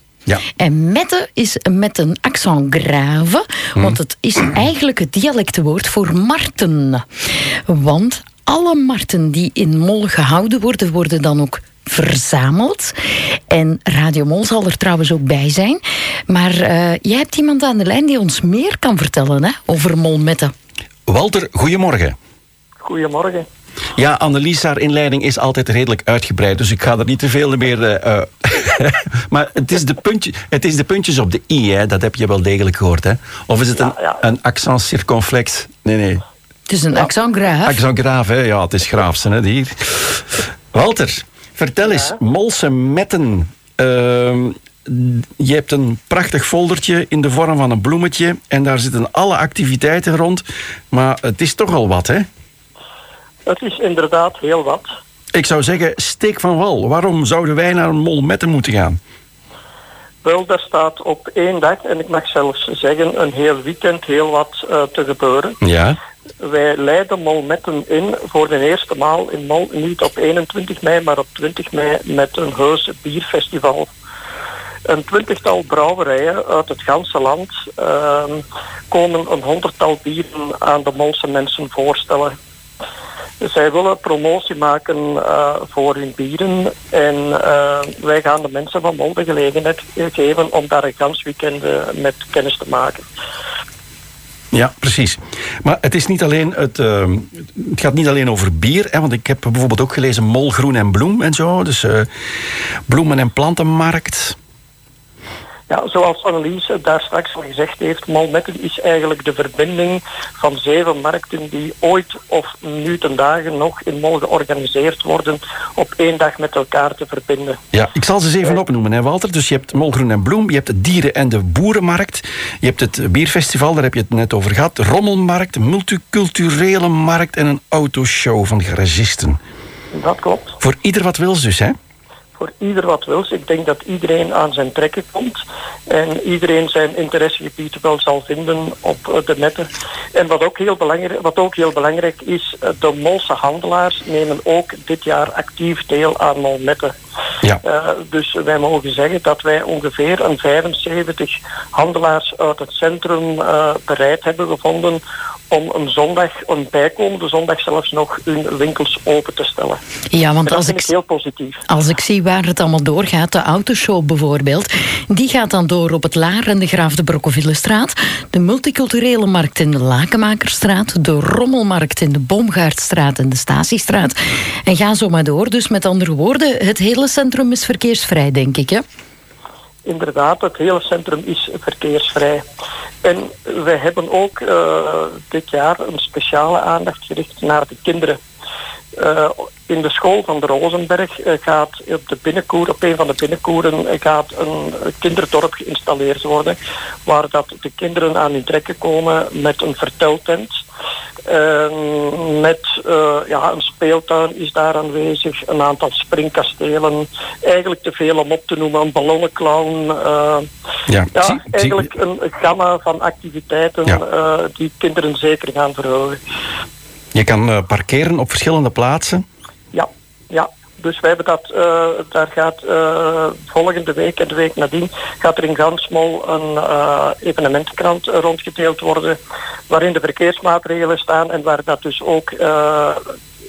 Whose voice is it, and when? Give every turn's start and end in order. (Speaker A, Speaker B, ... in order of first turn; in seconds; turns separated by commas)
Speaker A: 0.6-7.0, Speaker A: 7.7-12.9, Speaker A: 13.5-20.5, Speaker B: 21.1-22.2, Speaker C: 22.8-23.5, Speaker B: 24.0-36.2, Speaker C: 33.8-34.2, Speaker A: 36.7-37.8, Speaker B: 37.7-52.3, Speaker C: 53.5-54.9, Speaker B: 55.3-59.0, Speaker C: 60.2-65.6, Speaker B: 65.6-66.0, Speaker C: 66.4-73.9, Speaker C: 74.9-82.3, Speaker C: 83.4-93.1, Speaker B: 94.5-102.1, Speaker B: 102.9-104.4, Speaker C: 105.7-117.6, Speaker B: 117.7-129.4, Speaker C: 129.9-130.6, Speaker B: 130.6-131.8, Speaker C: 132.4-146.9, Speaker C: 147.6-159.8, Speaker A: 160.1-160.9, Speaker C: 160.5-161.6, Speaker A: 161.7-178.8, Speaker C: 179.9-182.4, Speaker C: 183.0-188.2, Speaker C: 189.0-200.5, Speaker C: 201.3-210.5, Speaker B: 210.9-211.8, Speaker C: 211.1-216.2, Speaker B: 217.1-219.2, Speaker C: 219.7-229.2, Speaker C: 229.7-233.1